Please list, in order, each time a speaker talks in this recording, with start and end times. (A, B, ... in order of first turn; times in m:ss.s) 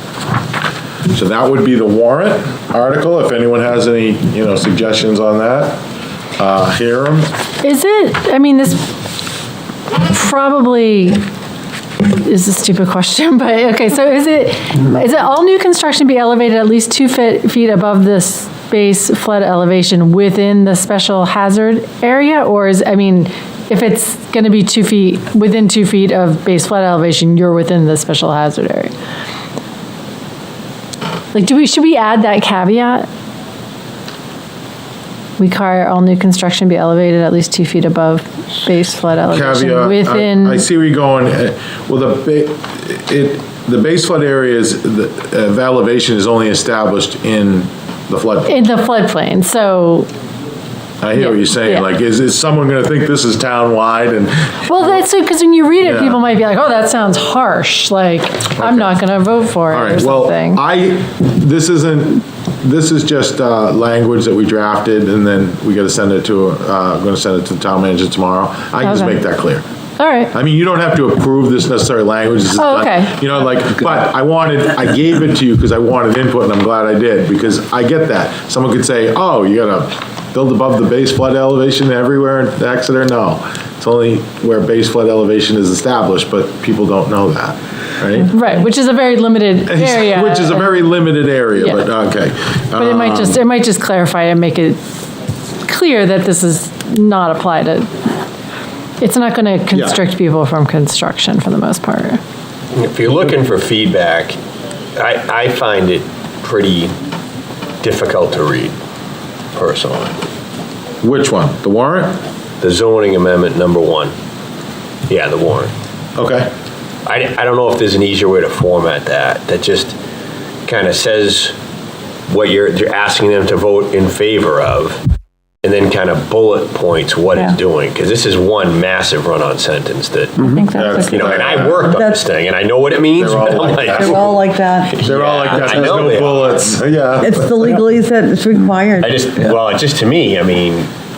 0:01.1-0:05.8 A
0:06.4-0:07.3 A
0:07.6-0:08.9 B
0:10.0-0:11.2 B
0:12.0-0:28.9 B
0:31.3-0:33.1 B
0:35.4-0:40.6 B
0:39.3-0:48.6 A
0:48.4-0:50.1 B
0:51.0-0:55.0 A
0:51.1-0:51.9 B
0:54.6-1:00.6 B
0:55.8-0:56.2 A
0:58.5-0:59.0 A
0:59.7-1:09.6 A
1:08.8-1:09.2 B
1:10.0-1:10.3 B
1:10.3-1:28.3 A
1:12.5-1:13.2 B
1:28.3-1:30.9 B
1:29.7-1:33.4 A
1:31.6-1:31.8 B
1:32.8-1:34.8 B
1:35.6-1:38.1 B
1:39.0-1:42.2 B
1:39.7-1:40.0 A
1:42.7-1:44.4 C
1:45.0-1:46.9 C
1:47.8-1:48.7 C
1:49.5-1:50.2 C
1:51.0-1:52.1 A
1:52.6-1:54.1 C
1:55.1-1:55.7 C
1:56.2-1:56.5 A
1:57.0-2:00.0 C
2:00.7-2:01.5 C
2:02.3-2:05.0 C
2:05.6-2:10.4 C
2:10.4-2:12.2 D
2:10.7-2:11.8 A
2:11.0-2:14.3 C
2:13.2-2:14.4 A
2:13.7-2:15.0 D
2:14.9-2:16.8 C
2:15.0-2:17.6 A
2:17.2-2:19.2 D
2:19.0-2:20.9 C